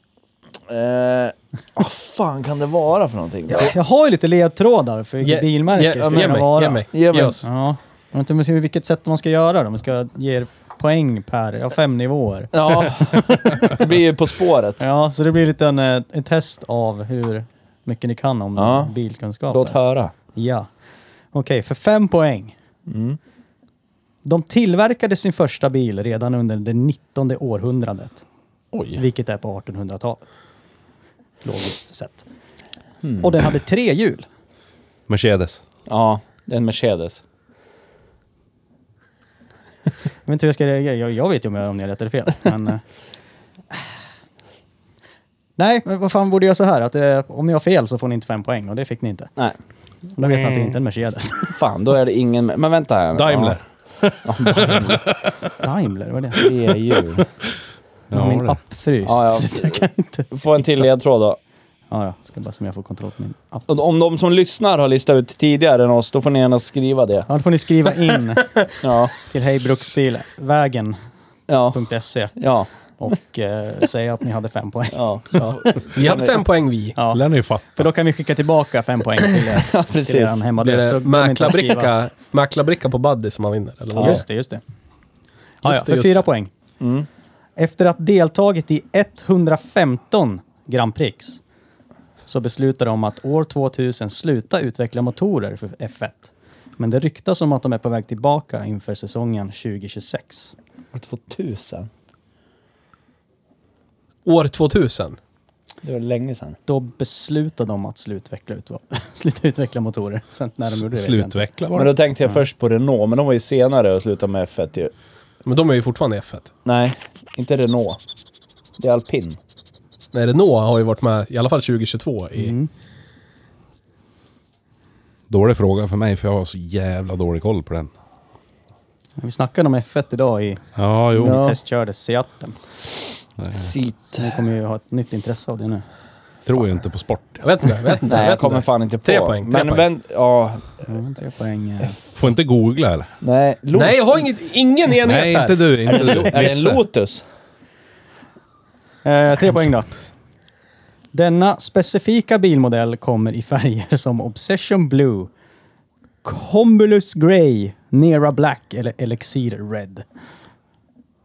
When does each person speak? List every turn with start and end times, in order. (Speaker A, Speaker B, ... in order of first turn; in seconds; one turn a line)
Speaker A: 0.7-3.7
Speaker B: 3.5-6.8
Speaker C: 5.2-7.4
Speaker A: 6.0-7.4
Speaker B: 7.4-13.8
Speaker A: 12.5-14.8
Speaker B: 14.8-19.8
Speaker A: 18.6-18.9
Speaker A: 19.5-20.1
Speaker B: 20.3-20.7
Speaker B: 21.3-22.5
Speaker A: 22.9-23.2
Speaker B: 24.2-28.2
Speaker A: 28.7-29.0
Speaker B: 28.9-30.2
Speaker B: 31.4-32.2
Speaker A: 33.0-33.3
Speaker B: 33.2-34.2
Speaker D: 35.1-35.6
Speaker A: 35.9-37.2
Speaker B: 40.2-42.8
Speaker B: 45.6-49.3
Speaker B: 50.1-51.6
Speaker D: 50.2-50.7
Speaker A: 51.5-53.6
Speaker D: 53.1-55.6
Speaker A: 54.2-55.0
Speaker B: 55.6-56.4
Speaker A: 56.4-57.2
Speaker D: 58.1-58.6
Speaker B: 58.1-60.9
Speaker A: 59.0-61.4
Speaker B: 61.9-63.6
Speaker A: 63.7-67.3
Speaker B: 67.3-71.0
Speaker A: 68.8-69.1
Speaker A: 71.5-71.8
Speaker B: 71.7-72.3
Speaker A: 72.3-72.7
Speaker B: 73.0-75.4
Speaker A: 74.9-76.4
Speaker C: 75.4-77.0
Speaker B: 77.0-77.2
Speaker D: 77.1-77.9
Speaker B: 77.8-81.9
Speaker A: 79.6-80.4
Speaker C: 80.6-84.2
Speaker A: 83.9-84.2
Speaker B: 84.0-84.6
Speaker C: 85.6-86.3
Speaker B: 85.6-86.5
Speaker A: 86.8-87.1
Speaker B: 87.6-91.4
Speaker B: 92.2-100.5
Speaker A: 100.9-101.9
Speaker C: 104.2-105.2
Speaker A: 105.8-106.6
Speaker B: 106.7-111.4
Speaker D: 110.7-112.0
Speaker A: 111.7-114.9
Speaker C: 115.5-116.5
Speaker A: 116.6-118.0
Speaker A: 118.8-119.4
Speaker C: 120.1-122.5
Speaker B: 122.4-122.7
Speaker D: 125.3-127.9
Speaker B: 129.2-130.6
Speaker D: 130.8-131.4
Speaker B: 131.1-132.6
Speaker A: 131.2-131.6
Speaker D: 133.4-133.7
Speaker A: 133.5-134.4
Speaker B: 134.1-135.8
Speaker D: 136.5-137.4
Speaker C: 137.4-139.9
Speaker A: 138.1-140.6
Speaker B: 140.9-142.0
Speaker D: 142.1-143.1
Speaker A: 143.2-144.2
Speaker C: 143.7-145.7
Speaker D: 144.9-146.8
Speaker A: 145.9-147.2
Speaker B: 149.0-150.1
Speaker B: 151.1-155.3
Speaker B: 156.2-160.0